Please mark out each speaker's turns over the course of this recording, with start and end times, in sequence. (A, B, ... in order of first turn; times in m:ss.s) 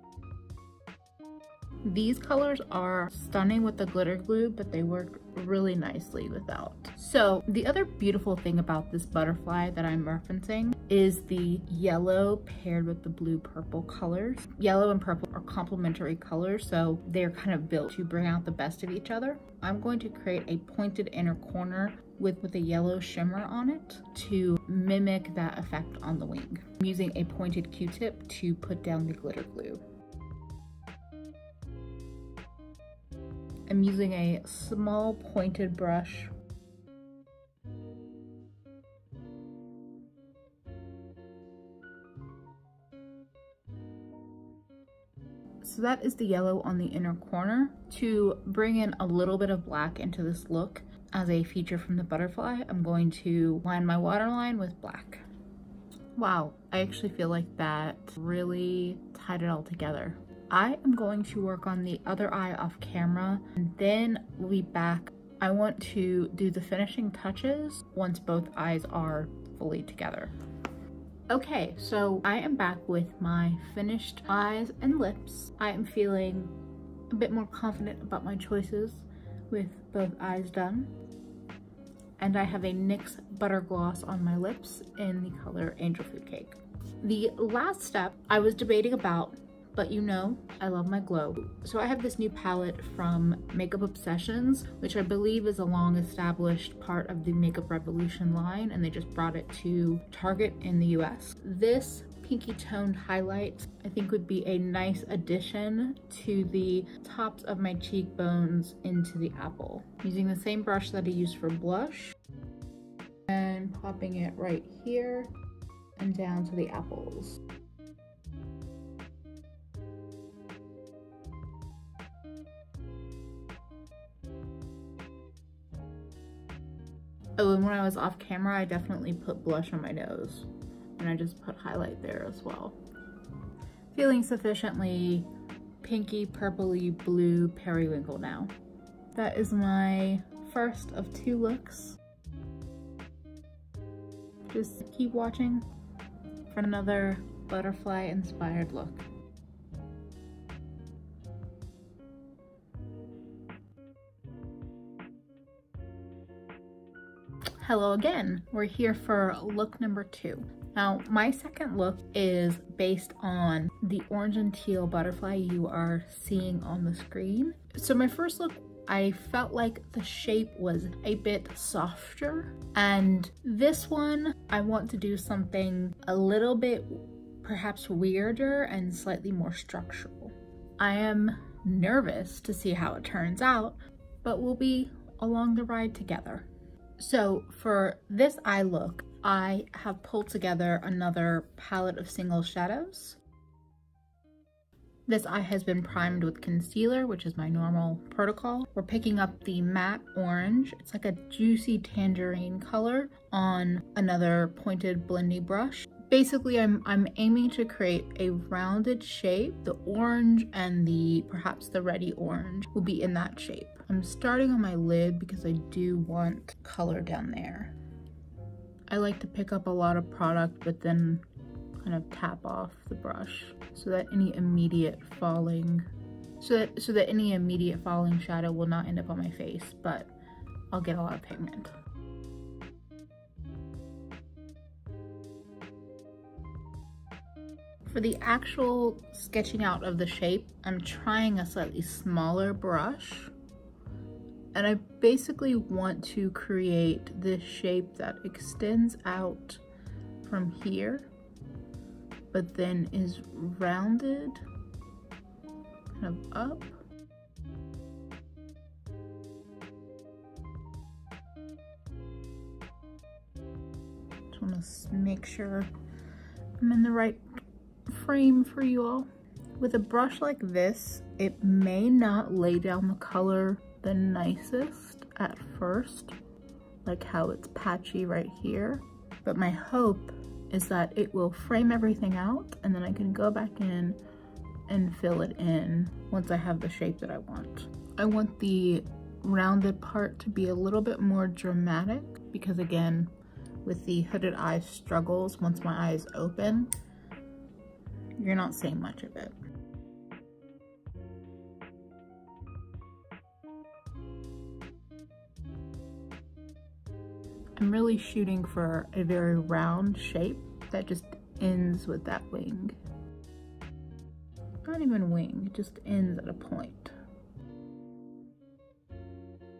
0:01.8-0:29.8 A
0:33.7-0:36.3 A
0:45.6-0:55.2 A
0:56.1-1:10.3 A
1:11.3-1:16.5 A
1:17.1-1:20.9 A
1:22.2-1:52.2 A
1:53.3-1:55.3 A
1:56.0-1:57.4 A
2:07.4-2:12.8 A
2:13.9-2:15.3 A
2:15.8-2:18.5 A
2:19.1-2:22.0 A
2:24.5-2:25.6 A
2:26.5-2:29.0 A
2:37.6-3:06.5 A
3:07.0-3:13.2 A
3:15.1-3:37.7 A
3:38.9-3:41.2 A
3:41.8-3:45.9 A
3:46.4-3:50.1 A
3:50.7-3:51.7 A
3:57.9-4:03.3 A
4:04.5-4:09.6 A
4:10.2-4:11.1 A
4:12.3-4:14.4 A
4:15.9-4:16.8 A
4:24.3-4:25.7 A
4:26.6-4:27.2 A
4:27.9-4:29.1 A
4:29.6-4:36.1 A
4:36.8-4:44.0 A
4:44.7-4:53.1 A
4:53.6-4:56.7 A
4:58.2-4:59.3 A
5:07.6-5:12.8 A
5:14.6-5:16.9 A